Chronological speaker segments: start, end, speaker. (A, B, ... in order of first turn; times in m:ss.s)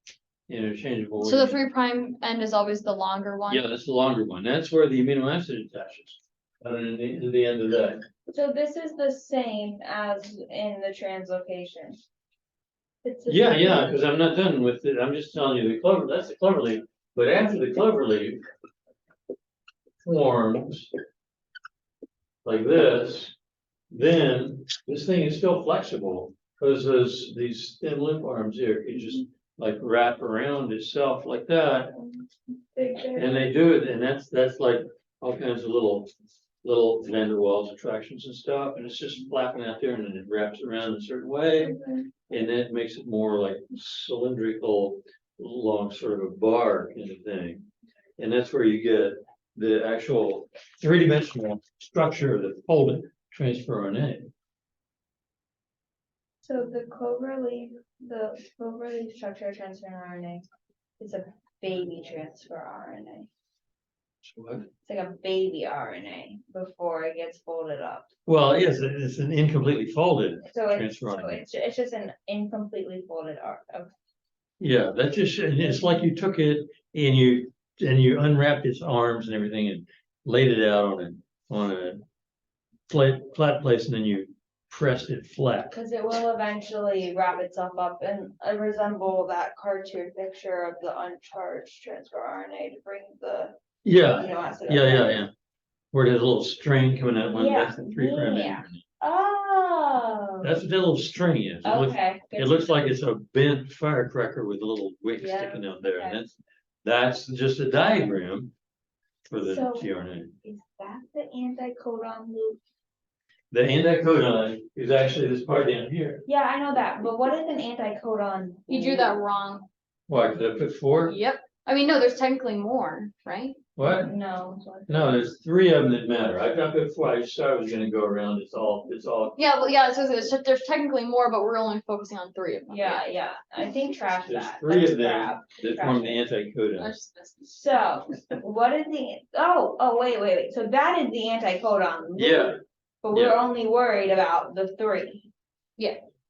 0:00.5-0:01.6 A
0:01.2-0:03.6 B
0:03.5-0:08.0 A
0:08.3-0:12.0 C
0:13.0-0:14.0 C
0:13.3-0:18.4 A
0:20.0-0:20.9 A
0:22.4-0:23.4 A
0:23.9-0:32.0 A
0:32.0-0:33.3 C
0:33.2-0:36.1 A
0:36.6-0:47.7 A
0:41.6-0:42.1 C
0:48.2-0:54.3 A
0:56.4-1:00.4 C
1:01.0-1:03.3 C
1:04.2-1:04.7 A
1:04.8-1:08.1 C
1:08.3-1:11.4 A
1:10.4-1:13.9 C
1:14.6-1:22.0 A
1:22.9-1:25.8 A
1:25.7-1:33.6 C
1:33.8-1:35.3 A
1:34.2-1:35.2 C
1:35.9-1:38.8 A
1:37.3-1:40.5 C
1:40.4-1:48.5 A
1:41.6-1:42.7 C
1:45.2-1:46.2 C
1:49.3-1:50.3 A
1:49.4-1:49.9 C
1:50.4-1:52.6 C
1:53.5-1:56.2 A
1:56.3-1:59.2 C
1:58.7-1:59.7 B
2:00.1-2:01.2 A
2:01.1-2:03.6 B
2:03.8-2:04.1 A
2:03.8-2:05.2 C
2:04.9-2:09.4 A
2:09.4-2:13.1 B
2:12.7-2:16.2 C
2:14.2-2:16.9 A
2:16.8-2:17.6 B
2:17.5-2:25.3 C
2:22.2-2:22.6 A
2:23.1-2:23.4 A
2:25.8-2:26.0 B